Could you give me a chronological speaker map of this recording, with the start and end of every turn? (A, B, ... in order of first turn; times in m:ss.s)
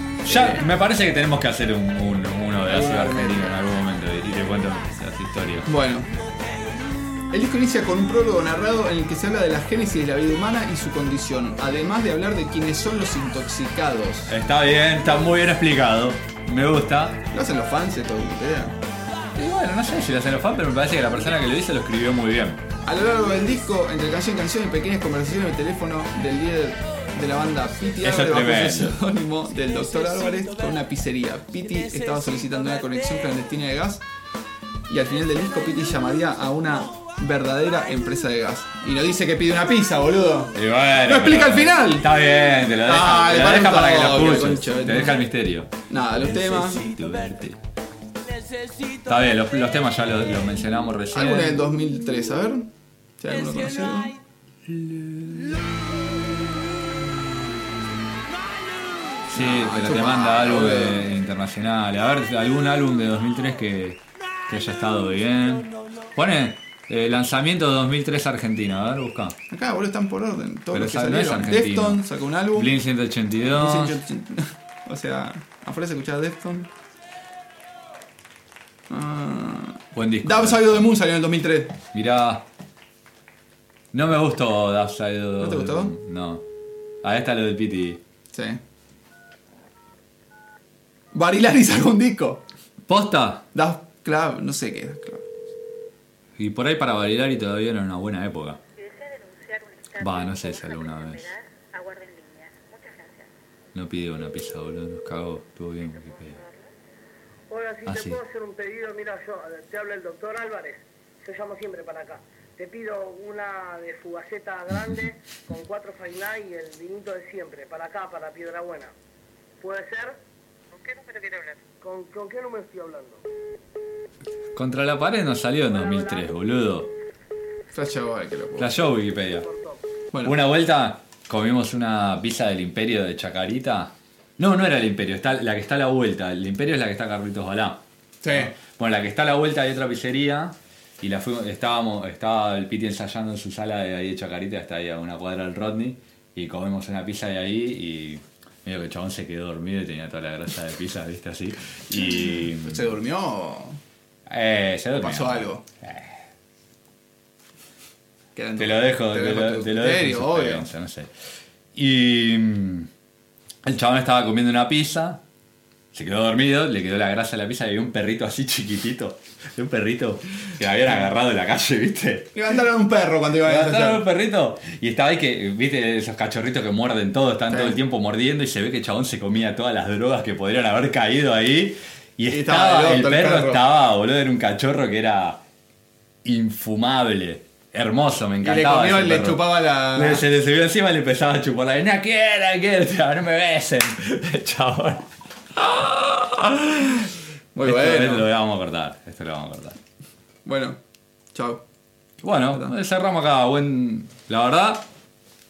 0:00.2-0:00.6 A
0:00.2-0:05.7 B
0:02.6-0:03.5 A
0:05.7-0:06.1 A
0:07.3-0:14.3 A
0:14.3-0:17.2 B
0:17.3-0:18.7 A
0:19.4-0:22.6 B
0:22.8-0:34.0 A
0:28.0-0:29.0 B
0:34.9-0:42.1 A
0:40.6-0:47.6 B
0:42.8-0:45.2 A
0:45.9-0:46.8 A
0:49.0-0:51.7 B
0:51.1-0:52.7 A
0:53.2-0:54.1 A
0:54.7-0:55.6 B
0:59.3-1:09.4 B
0:59.4-1:01.1 A
1:09.5-1:12.7 A
1:10.7-1:14.0 B
1:13.5-1:16.7 A
1:18.9-1:21.8 A
1:19.9-1:20.9 B
1:21.9-1:22.4 B
1:23.9-1:26.4 B
1:25.4-1:25.9 A
1:27.0-1:28.0 B
1:28.3-1:28.6 A
1:31.1-1:32.4 A
1:32.9-1:33.4 B
1:33.5-1:35.2 A
1:36.4-1:38.6 B
1:39.1-1:39.8 C
1:39.9-1:41.4 B
1:41.8-1:43.1 C
1:43.7-1:46.5 B
1:47.5-1:58.9 D
1:47.9-1:48.2 B
1:59.6-2:00.2 D
2:00.7-2:03.2 D
2:04.6-2:06.9 B
2:05.7-2:06.3 D
2:07.7-2:08.7 A
2:08.6-2:09.5 B
2:09.4-2:09.8 D
2:10.1-2:10.4 A
2:10.2-2:32.9 B
2:18.2-2:18.5 A
2:32.6-2:33.8 A
2:34.3-2:36.2 B
2:35.0-2:35.6 A
2:38.4-2:40.7 A
2:38.6-2:41.1 B
2:41.8-2:42.9 B
2:43.6-2:45.2 B
2:45.9-2:52.3 B
2:52.3-2:54.0 A
2:53.4-3:05.4 B
2:57.5-2:57.8 A
3:02.3-3:03.6 A
3:06.2-3:17.0 B
3:08.4-3:10.2 A
3:17.6-3:18.3 A
3:17.6-3:19.8 B
3:20.4-3:20.8 A
3:21.3-3:21.6 A
3:22.2-3:24.8 B